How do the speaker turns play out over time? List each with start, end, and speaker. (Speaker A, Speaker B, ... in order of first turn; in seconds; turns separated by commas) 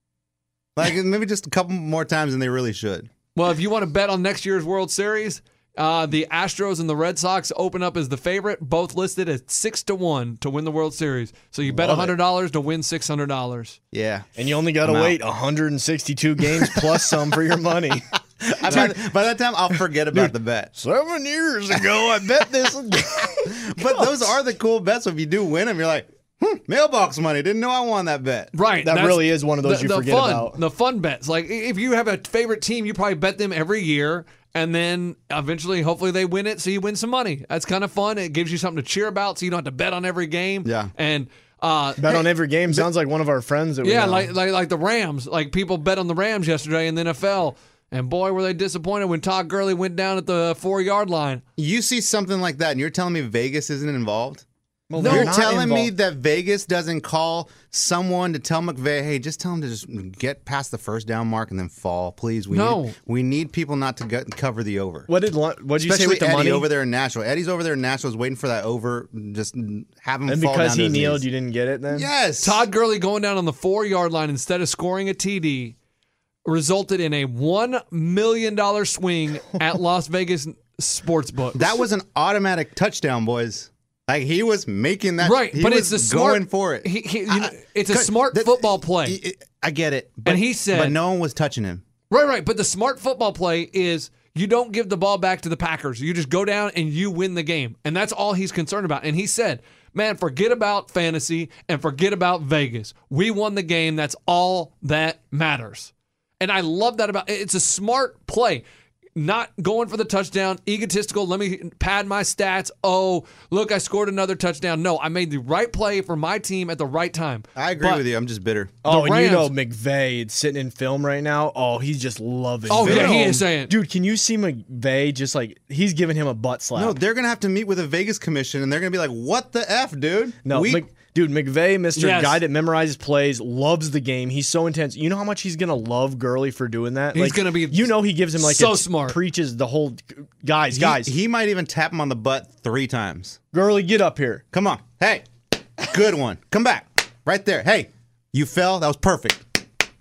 Speaker A: 0.8-3.1, Speaker B: 3.3-13.8, Speaker C: 11.7-12.1, Speaker A: 13.9-14.3, Speaker C: 14.3-19.0, Speaker A: 14.8-15.2, Speaker A: 16.6-17.1, Speaker A: 18.4-20.7, Speaker C: 20.1-24.3, Speaker A: 23.4-28.5, Speaker B: 28.5-42.2, Speaker C: 28.8-30.6, Speaker A: 40.6-40.9, Speaker C: 42.0-44.3, Speaker B: 43.8-51.4, Speaker A: 51.6-54.4, Speaker C: 54.9-55.9, Speaker B: 55.0-55.3, Speaker A: 55.0-65.1, Speaker B: 62.5-63.0, Speaker C: 65.1-66.7, Speaker A: 65.8-71.2, Speaker C: 70.3-72.1, Speaker A: 71.9-72.6, Speaker B: 72.4-75.8, Speaker B: 76.4-81.7, Speaker A: 81.5-91.8, Speaker B: 85.2-89.2, Speaker B: 90.2-91.0, Speaker B: 92.1-108.6, Speaker B: 109.2-118.0, Speaker A: 117.5-118.7, Speaker C: 118.8-127.0, Speaker B: 118.8-119.5, Speaker B: 122.7-123.7, Speaker A: 122.7-123.4, Speaker A: 126.8-130.8, Speaker C: 130.4-141.1, Speaker B: 131.9-132.4, Speaker B: 137.1-139.2, Speaker A: 140.7-143.4, Speaker C: 143.5-144.4, Speaker A: 144.5-145.3, Speaker A: 145.8-149.6